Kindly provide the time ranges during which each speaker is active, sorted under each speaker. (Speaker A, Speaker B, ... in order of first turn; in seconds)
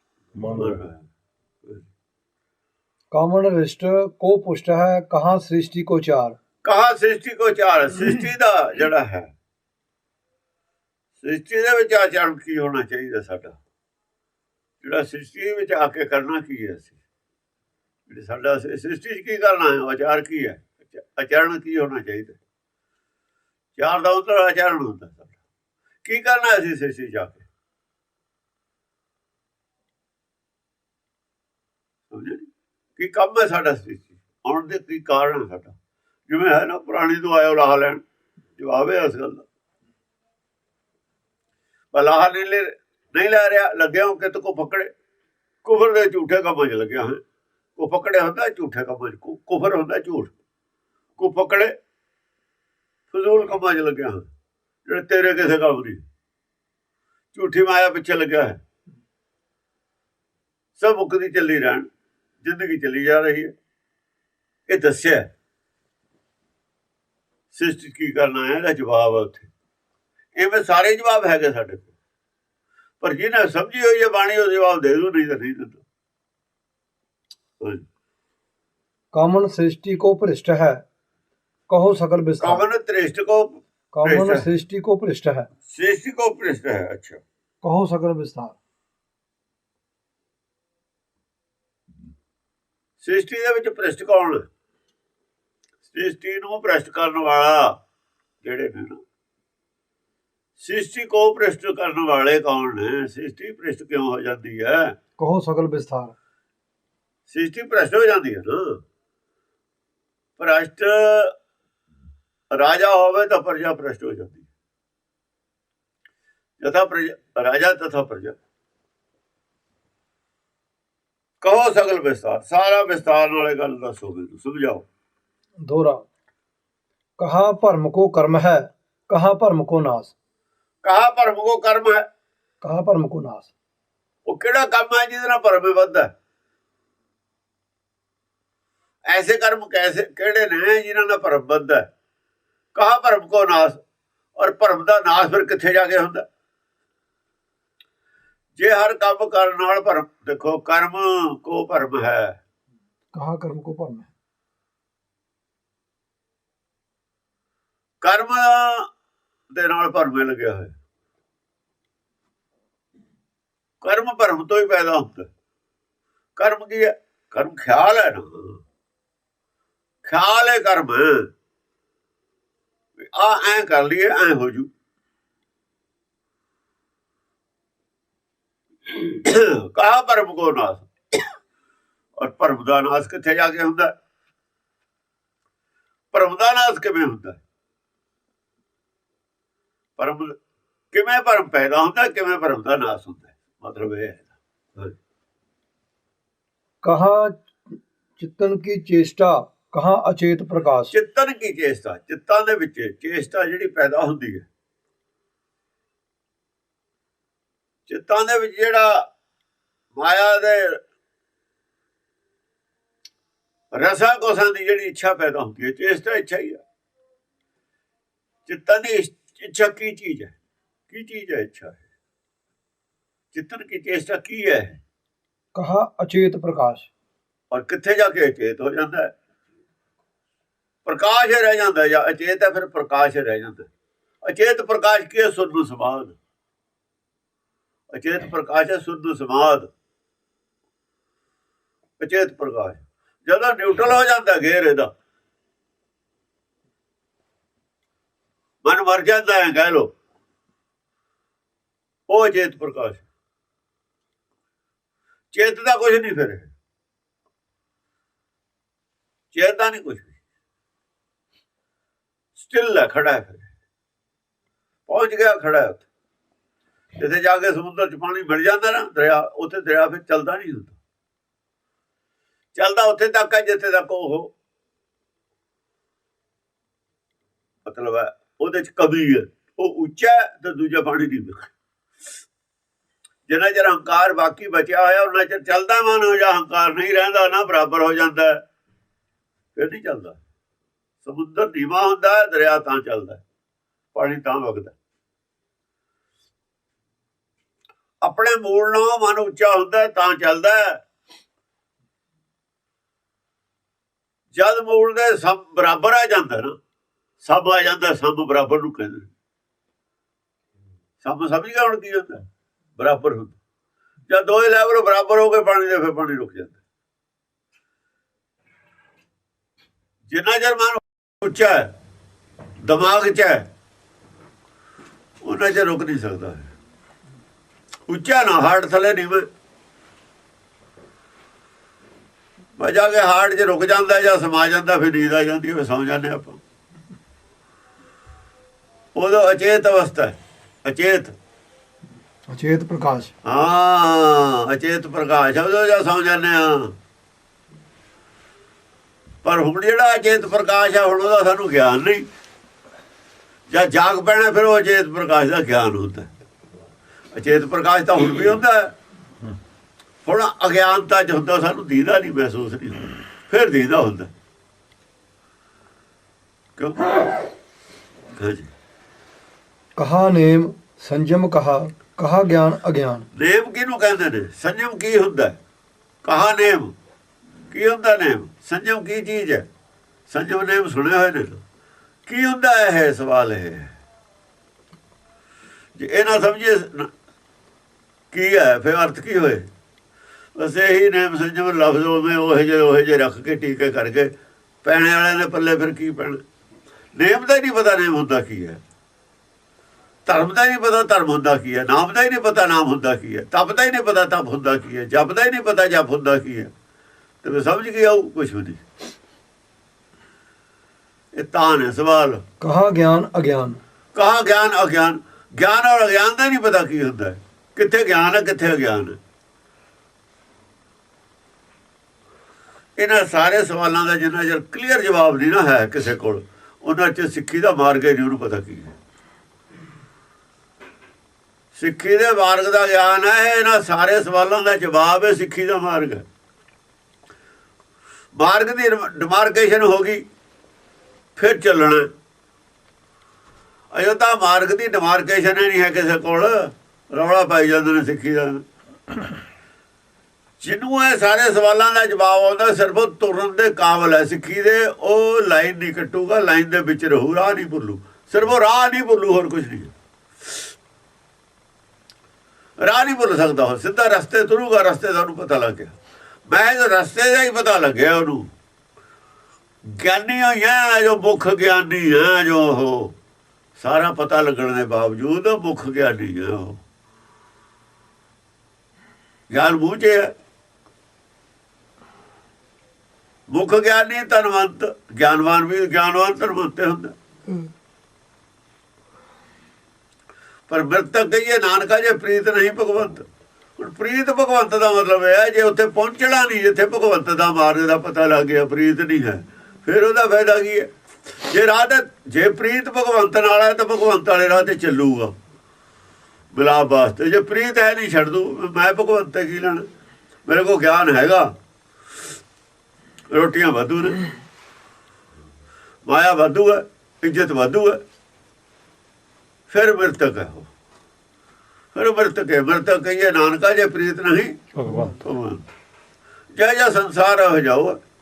Speaker A: 0.4-1.1, 6.6-9.3, 11.2-13.6, 14.8-17.0, 18.1-22.4, 23.8-25.4, 26.0-27.4, 32.1-35.7, 36.3-38.0, 38.6-39.4, 41.9-44.9, 45.6-47.2, 47.8-50.3, 51.2-51.7, 53.1-54.3, 54.9-56.0, 57.3-58.6, 60.8-61.9, 62.4-63.5, 64.7-65.3, 67.5-69.5, 70.3-71.9, 73.0-75.8, 82.4-84.5, 85.7-87.2, 93.0-94.5, 95.8-97.8, 98.4-99.0, 100.6-104.9, 107.3-108.8, 110.4-111.3, 112.5-114.5, 116.6-118.3, 121.4-124.8, 130.8-132.0, 134.2-136.1, 139.1-141.9, 142.7-143.8, 144.3-146.2, 148.6-152.4, 158.0-158.9, 159.5-160.8, 163.8-165.3, 166.3-168.6, 170.0-171.3, 173.0-174.7, 178.9-181.2, 182.2-183.9, 186.1-187.4, 190.0-190.3, 190.9-194.9, 200.9-204.4, 207.9-209.1, 209.9-210.8, 213.7-216.6, 218.4-220.3, 220.9-221.8, 223.3-224.8, 227.5-229.1, 230.8-233.7, 234.2-236.2, 237.9-239.7, 242.0-244.9, 248.6-249.9, 252.1-253.1, 255.3-256.5, 259.3-260.1, 262.4-263.5, 264.9-265.8, 267.0-270.8, 272.5-274.3, 277.6-281.5, 283.3-288.4, 289.6-290.2, 291.0-293.2, 293.9-294.7, 298.0-300.8, 304.3-306.5, 307.2-309.1, 311.0-312.2, 312.8-313.4, 314.1-316.6, 320.1-321.7, 322.6-323.5, 325.2-326.5, 327.9-329.3, 332.6-336.4, 338.9-341.1, 343.2-346.7, 349.2-352.1, 353.5-356.1, 357.1-358.7, 360.0-364.1, 366.6-367.1, 368.1-368.5, 373.1-375.4, 376.0-376.7, 377.5-379.5, 380.1-381.4, 382.1-383.7, 385.8-386.9, 388.1-389.5, 390.4-394.1, 394.6-396.2, 396.9-398.6, 400.1-406.5, 407.2-408.6, 411.1-412.2, 413.9-419.0, 422.8-428.7, 431.5-436.0, 438.1-440.0, 441.1-441.9, 443.7-448.4, 450.4-459.7, 462.6-465.7, 466.3-468.3, 469.6-472.9, 473.6-476.6, 479.3-480.1, 483.3-486.9, 490.5-493.0, 493.6-500.7, 501.2-505.1, 506.3-509.7, 510.2-511.3, 513.1-514.0, 515.9-517.8, 519.5-520.5, 521.7-525.5, 526.3-527.8
Speaker B: 3.1-6.4, 79.1-80.8, 81.7-82.6, 83.9-85.5, 87.6-88.6, 105.2-106.1, 125.6-126.0, 127.2-130.1, 132.6-133.5, 153.1-154.1, 196.8-197.5, 198.2-200.9, 225.5-226.9, 342.3-343.1, 369.8-373.1, 412.4-413.6